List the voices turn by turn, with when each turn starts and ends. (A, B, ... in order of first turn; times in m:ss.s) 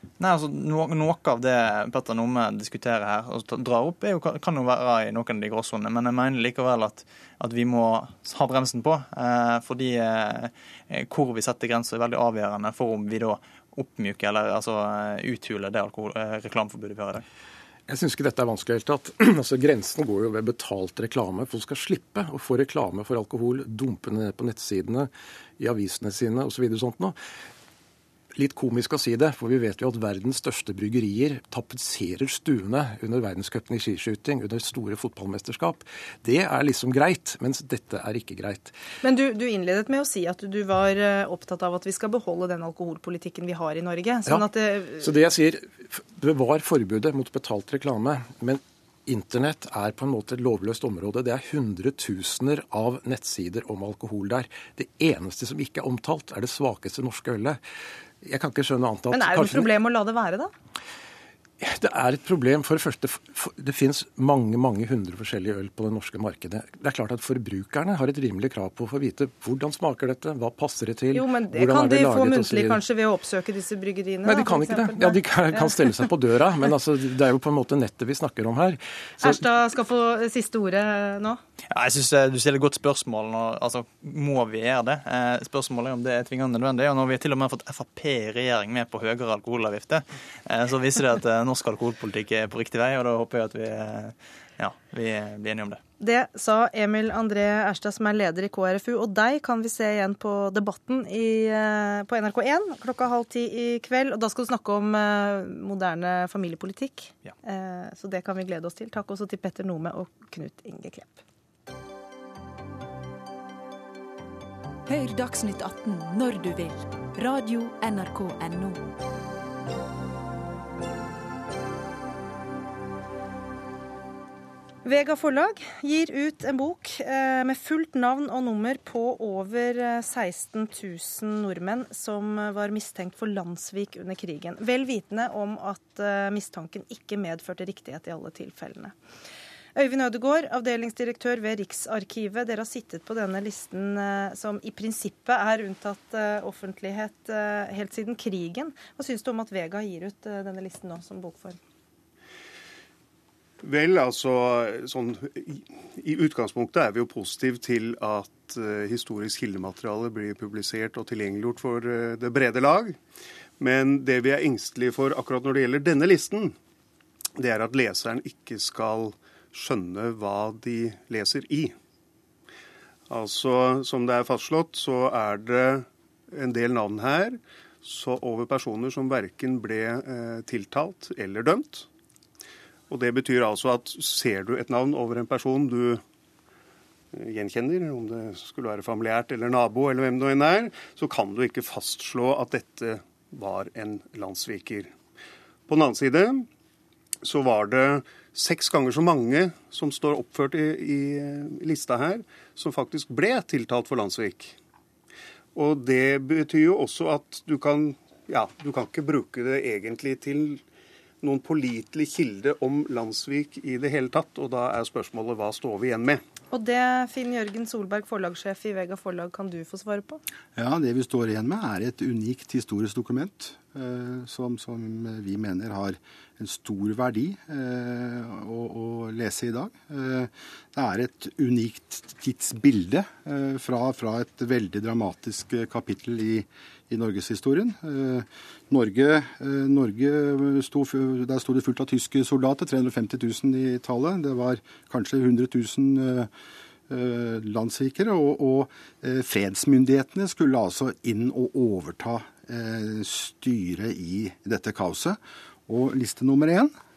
0:00.2-0:17.2 A
0:17.9-0:27.2 B
0:28.4-0:38.7 B
0:39.0-0:45.1 C
0:44.3-0:57.6 B
0:58.2-0:59.7 B
0:59.1-1:00.5 C
1:01.6-1:12.8 B
1:11.1-1:16.1 C
1:14.2-1:19.4 B
1:19.2-1:21.4 C
1:21.7-1:35.8 A
1:36.0-1:51.2 C
1:54.9-1:58.9 D
2:04.8-2:18.9 C
2:19.8-2:31.6 C
2:33.6-2:43.0 E
2:43.6-2:46.6 E
2:47.4-2:51.8 E
2:53.1-3:01.9 E
3:02.9-3:06.0 E
3:07.1-3:14.9 E
3:15.7-3:16.5 E
3:17.2-3:24.6 E
3:25.6-3:30.6 E
3:31.2-3:36.2 E
3:36.5-3:40.2 C
3:40.6-4:06.3 F
4:06.9-4:16.7 F